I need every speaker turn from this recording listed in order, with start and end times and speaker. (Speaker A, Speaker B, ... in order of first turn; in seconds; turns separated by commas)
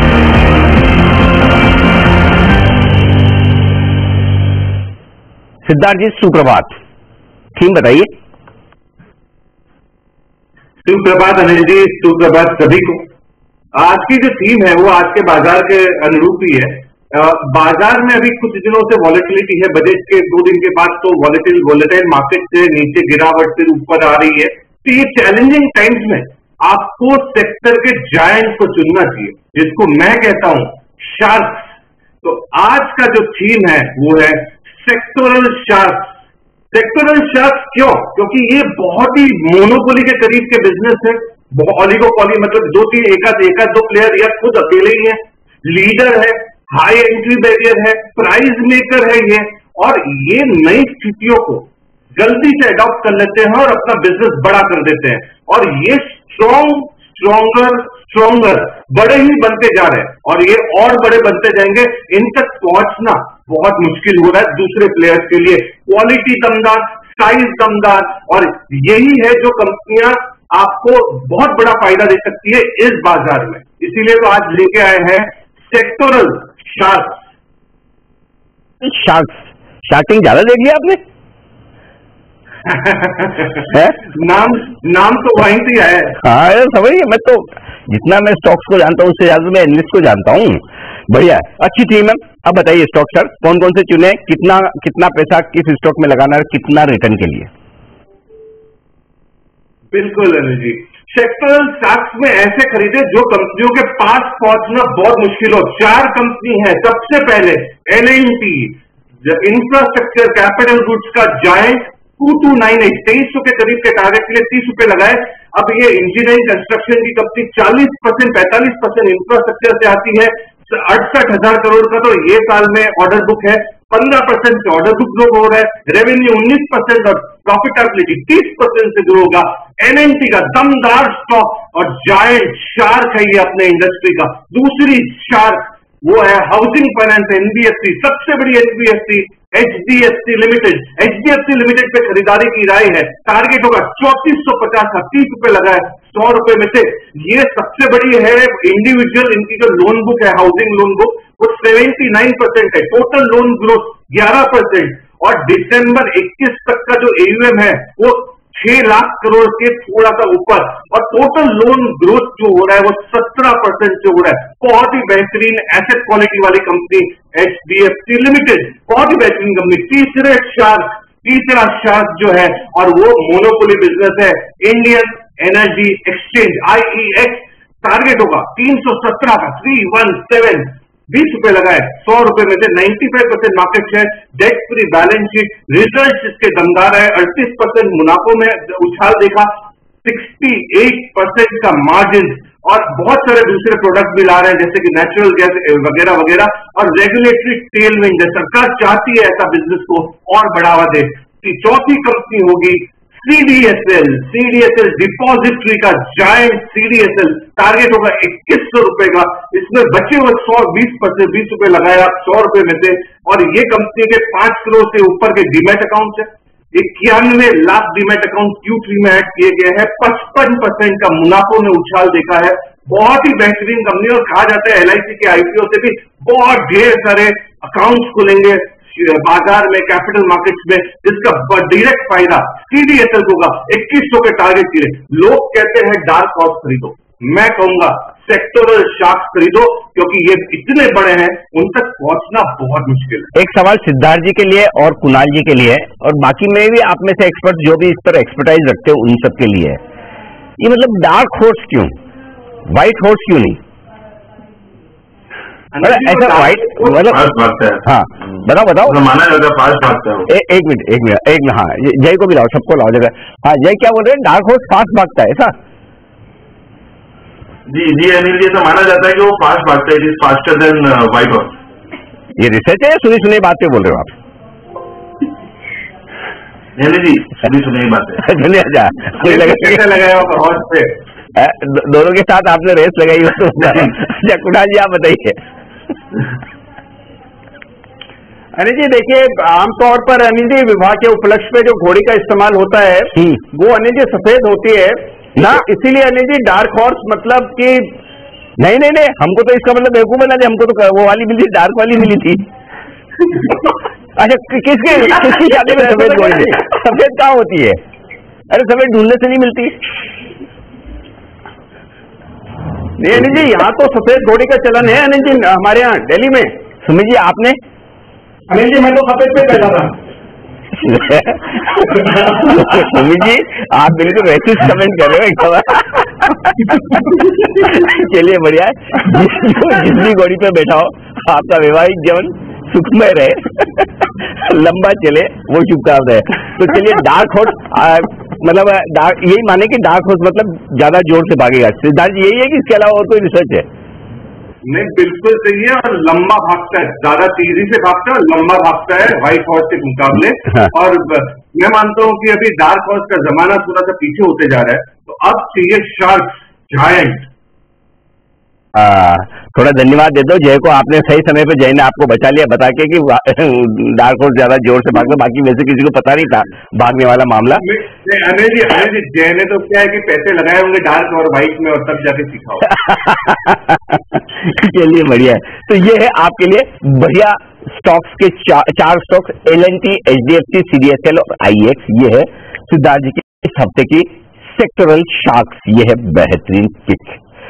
Speaker A: 5.7-6.7, Speaker A: 7.5-8.1, Speaker B: 10.8-13.1, Speaker B: 13.8-31.7, Speaker B: 32.2-36.1, Speaker B: 36.7-77.2, Speaker A: 78.8-81.0, Speaker B: 82.7-86.2, Speaker A: 83.7-84.0, Speaker A: 86.2-97.5, Speaker B: 99.9-243.3, Speaker A: 243.3-249.8, Speaker A: 250.6-251.9, Speaker A: 252.7-253.6, Speaker B: 255.7-257.2, Speaker A: 255.8-257.2, Speaker C: 257.1-257.8, Speaker A: 257.8-259.0, Speaker C: 258.8-260.3, Speaker A: 260.3-265.5, Speaker C: 267.7-271.5, Speaker A: 272.4-274.1, Speaker C: 276.8-278.3, Speaker A: 278.2-279.8, Speaker B: 279.2-280.9, Speaker A: 281.4-285.4, Speaker D: 288.6-297.9, Speaker A: 295.4-295.6, Speaker A: 298.6-302.4, Speaker A: 304.2-307.8, Speaker D: 305.9-306.4, Speaker A: 308.5-309.8, Speaker D: 313.0-316.5, Speaker A: 316.8-317.6, Speaker D: 318.5-319.9, Speaker A: 320.8-343.7, Speaker D: 321.9-322.9, Speaker B: 344.7-357.3, Speaker A: 358.8-367.6, Speaker B: 367.6-372.7, Speaker A: 372.8-387.2